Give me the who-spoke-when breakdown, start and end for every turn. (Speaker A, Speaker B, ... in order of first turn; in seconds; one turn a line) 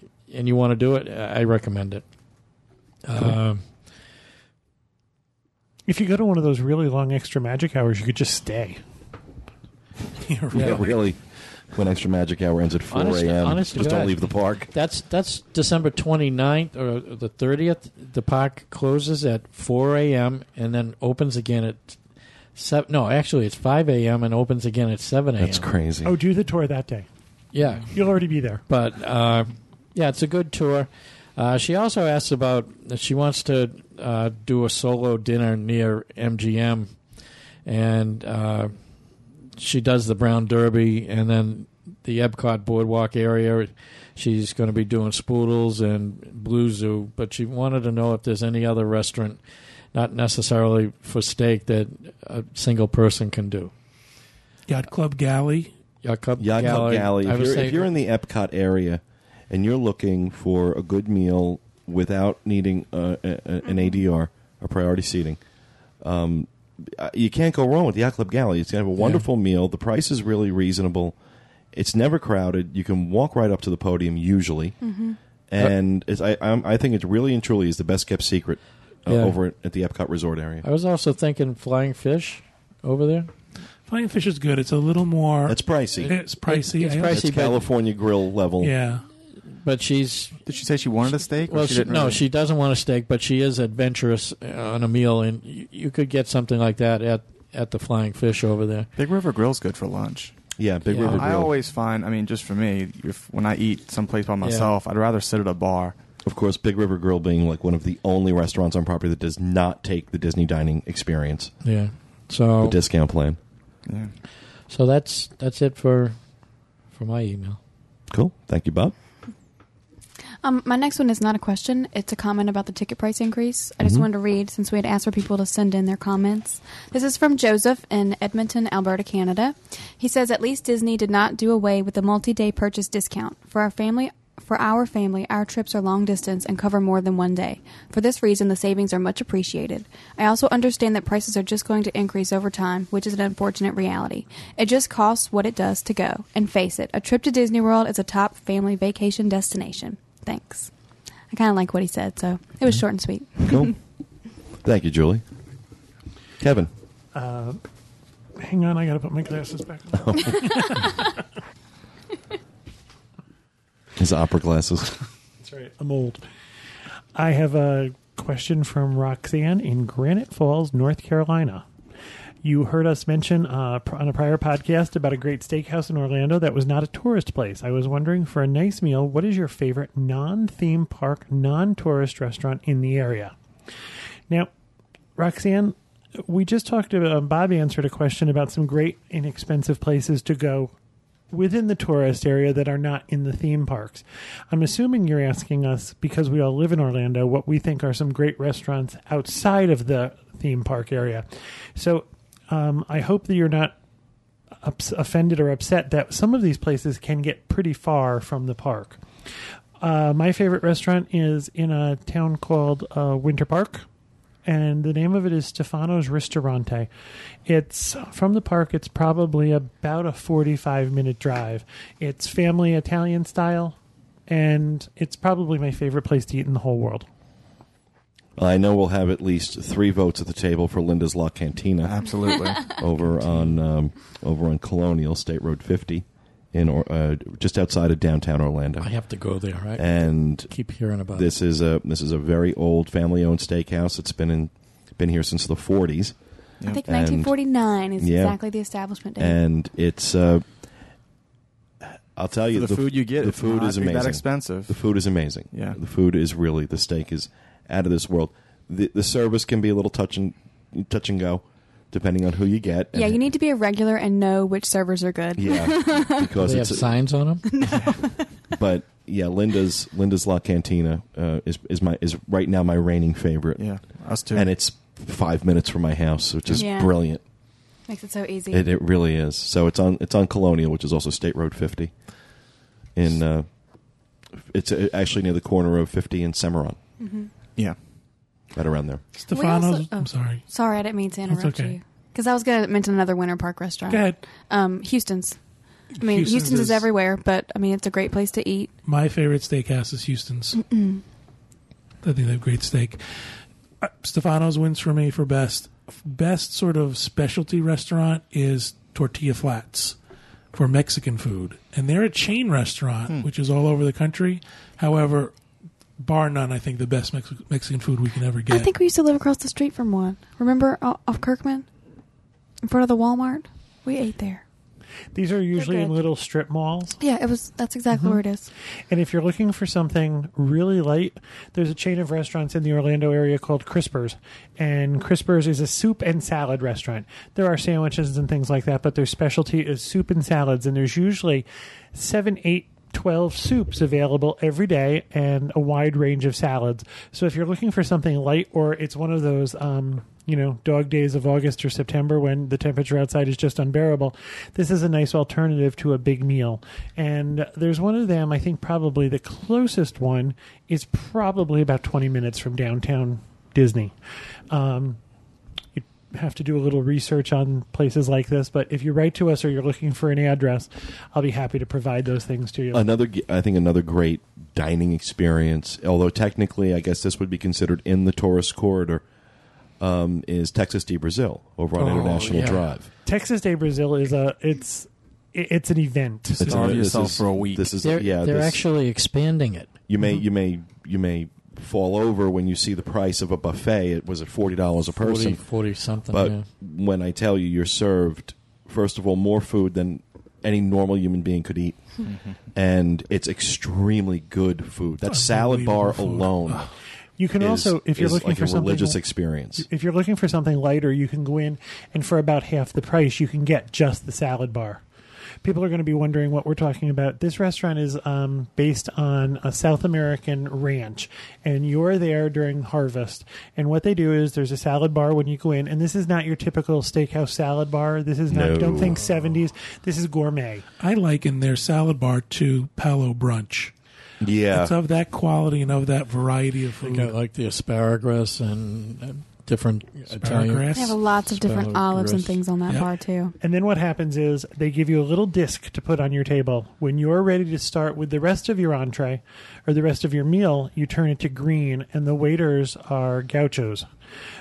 Speaker A: 0.3-2.0
Speaker A: 3.0-3.6
Speaker B: 5.9-8.8
Speaker C: 10.2-10.9
Speaker D: 10.5-11.2
Speaker D: 11.7-14.7
Speaker A: 12.9-22.0
Speaker A: 22.6-25.7
Speaker D: 25.4-26.2
Speaker B: 26.0-27.1
Speaker A: 27.5-27.9
Speaker B: 27.9-28.6
Speaker A: 28.7-36.9
Speaker A: 37.6-38.7
Speaker A: 39.6-49.4
Speaker A: 49.9-53.7
Speaker C: 54.7-55.7
Speaker A: 56.0-57.9
Speaker D: 56.4-65.4
Speaker D: 66.0-71.2
Speaker A: 69.0-69.2
Speaker D: 71.7-74.8
Speaker E: 74.8-75.2
Speaker D: 75.5-80.6
Speaker A: 79.1-79.4
Speaker A: 80.6-83.3
Speaker C: 83.9-87.2
Speaker D: 85.5-86.1
Speaker A: 86.1-87.6
Speaker D: 87.1-88.7
Speaker C: 88.6-89.0
Speaker A: 89.6-90.4
Speaker F: 90.5-92.2
Speaker A: 91.5-98.9
Speaker F: 99.0-100.4
Speaker D: 100.6-101.5
Speaker A: 100.9-101.3
Speaker F: 101.0-105.9
Speaker A: 104.4-104.7
Speaker D: 106.2-111.5
Speaker A: 111.6-112.8
Speaker D: 112.6-113.4
Speaker F: 113.8-114.1
Speaker A: 114.7-116.2
Speaker A: 116.9-117.6
Speaker D: 118.1-118.9
Speaker E: 120.4-150.7
Speaker E: 151.3-153.7
Speaker D: 153.4-153.7
Speaker D: 154.6-155.2
Speaker D: 156.4-156.7
Speaker B: 157.1-157.6
Speaker B: 158.4-161.0
Speaker D: 159.9-160.4
Speaker D: 164.0-164.9
Speaker B: 165.4-166.2
Speaker B: 167.1-171.6
Speaker B: 172.4-183.3
Speaker B: 185.2-190.7
Speaker B: 191.3-203.8
Speaker B: 204.6-209.0
Speaker B: 209.8-213.8
Speaker B: 214.4-216.9
Speaker B: 217.4-223.8
Speaker B: 224.3-227.1
Speaker D: 228.4-238.9
Speaker F: 231.8-232.7
Speaker A: 233.1-233.5
Speaker A: 238.8-239.9
Speaker D: 239.8-240.5
Speaker A: 240.5-241.3
Speaker D: 241.1-246.1
Speaker E: 246.7-249.4
Speaker D: 246.9-247.3
Speaker D: 248.0-248.4
Speaker D: 249.2-250.4
Speaker D: 252.2-263.2
Speaker F: 252.5-254.8
Speaker F: 255.5-255.8
Speaker E: 262.9-266.4
Speaker D: 265.3-266.9
Speaker A: 266.4-267.5
Speaker E: 267.4-268.5
Speaker D: 268.6-273.6
Speaker F: 273.6-274.5
Speaker D: 274.3-277.2
Speaker E: 276.5-276.9
Speaker E: 277.9-278.6
Speaker D: 278.5-281.9
Speaker D: 282.9-283.5
Speaker D: 284.4-286.8
Speaker E: 287.0-287.3
Speaker D: 288.5-289.0
Speaker C: 289.2-290.4
Speaker E: 289.3-295.4
Speaker C: 291.3-291.7
Speaker C: 293.9-294.2
Speaker C: 295.9-296.9
Speaker E: 295.9-298.7
Speaker C: 298.8-300.6
Speaker E: 300.6-301.0
Speaker C: 302.0-303.0
Speaker C: 303.8-309.9
Speaker C: 310.5-315.3
Speaker C: 316.0-318.7
Speaker E: 318.5-321.7
Speaker E: 322.6-324.4
Speaker B: 325.1-327.0
Speaker E: 325.5-326.0
Speaker E: 327.0-328.5
Speaker B: 327.9-328.2
Speaker B: 328.9-363.9
Speaker B: 364.5-365.0
Speaker B: 365.8-372.8
Speaker D: 372.7-379.0
Speaker D: 379.8-382.9
Speaker A: 381.8-382.6
Speaker B: 383.1-386.6
Speaker F: 386.4-387.7
Speaker D: 386.4-388.6
Speaker A: 387.8-389.7
Speaker D: 389.9-395.4
Speaker A: 395.0-396.5
Speaker D: 396.1-401.8
Speaker D: 402.5-406.7
Speaker C: 405.0-406.7
Speaker B: 407.2-409.0
Speaker D: 407.4-409.7
Speaker B: 409.6-414.8
Speaker B: 415.4-430.6
Speaker D: 428.3-429.0
Speaker C: 430.8-433.7
Speaker D: 434.2-434.7
Speaker C: 434.5-437.1
Speaker A: 436.8-442.4
Speaker C: 440.1-440.9
Speaker E: 440.7-443.3
Speaker B: 443.4-453.9